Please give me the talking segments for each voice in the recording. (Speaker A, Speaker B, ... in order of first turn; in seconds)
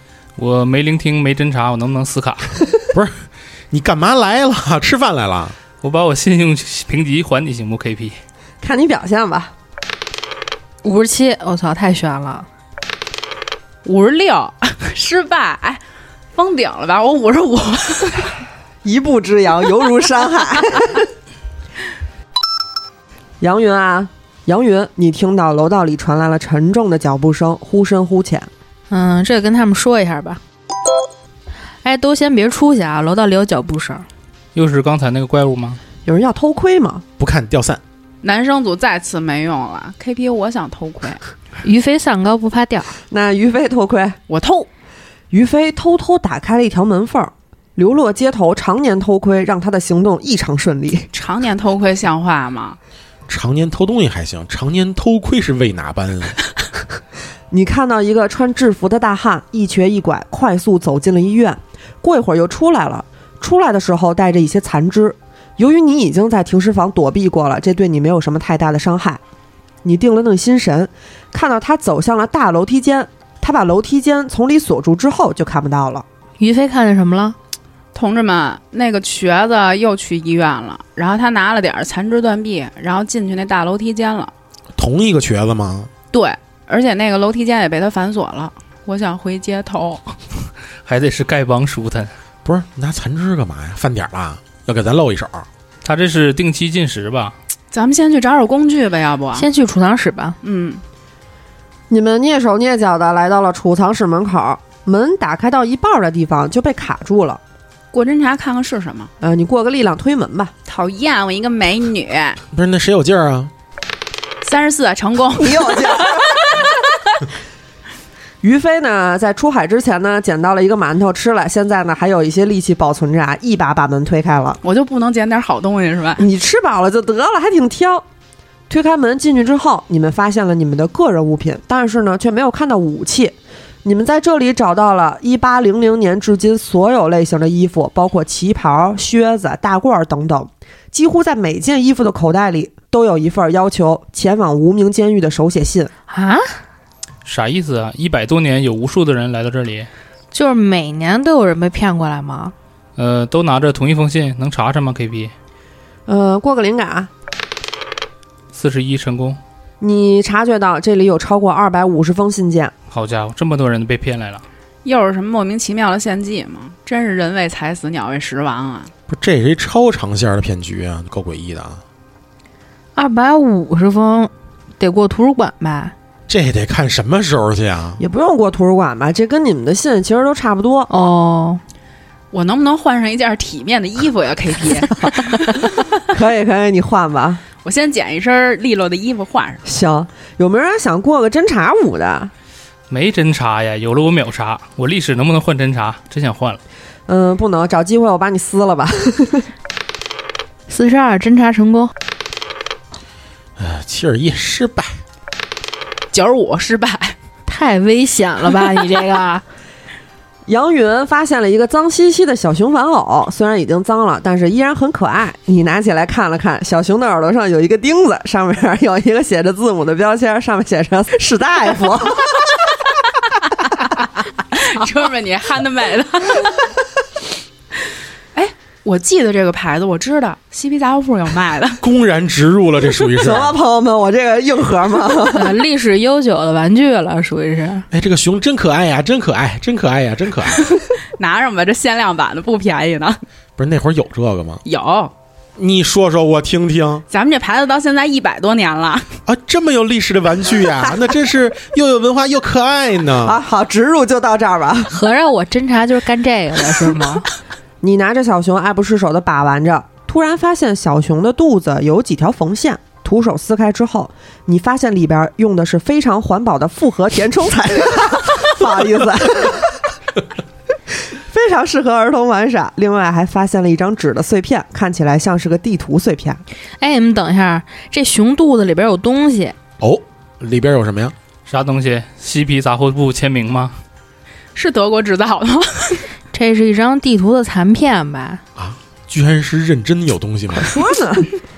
Speaker A: 0.4-2.6, 5.8-8.2, 34.5-35.8, 90.8-92.1, 95.8-97.3, 147.2-149.9, 152.9-155.3, 158.5-159.4, 162.9-164.4, 192.9-196.6, 281.4-283.8
Speaker B: 2.9-5.6, 37.2-37.8, 53.3-56.4, 84.8-85.9, 92.4-95.5, 112.5-113.5, 169.1-171.8, 176.3-178.0, 203.6-205.0, 231.8-233.6, 237.9-240.7, 243.6-244.6, 245.6-247.0, 249.2-253.4, 279.8-281.1, 288.6-290.8
Speaker C: 8.6-9.5, 18.8-21.1, 23.4-28.5, 36.0-37.0, 43.1-44.2, 45.3-51.1, 57.5-69.2, 69.8-76.0, 101.9-107.4, 109.2-110.5, 115.4-116.5, 118.4-124.6, 126.2-128.0, 128.7-145.9, 156.1-157.1, 159.8-162.7, 178.0-180.9, 186.1-187.4, 189.7-192.3, 197.1-199.5, 210.5-222.5, 233.2-235.5, 253.2-254.9, 257.8-269.8, 271.1-276.4, 290.6-291.3
Speaker D: 10.8-12.5, 28.9-30.4, 31.8-34.0, 41.6-42.9, 76.4-77.3, 99.3-100.4, 146.1-146.6, 150.3-152.5, 172.9-175.9, 180.9-181.6, 200.7-201.9, 207.5-209.4, 235.3-237.9, 254.9-257.3, 276.8-279.6, 286.3-288.4
Speaker E: 13.8-15.8, 16.3-18.4, 38.2-41.2, 44.3-44.7, 51.1-52.8, 77.9-84.3, 86.1-90.2, 97.7-99.5, 100.4-100.8, 107.9-109.1, 110.7-112.4, 114.4-117.2, 124.6-126.2, 164.8-168.9, 182.3-185.8, 187.6-189.6, 206.1-207.2, 224.5-226.7, 228.3-231.8, 240.8-243.2, 244.6-245.1, 247.1-249.1, 284.5-286.1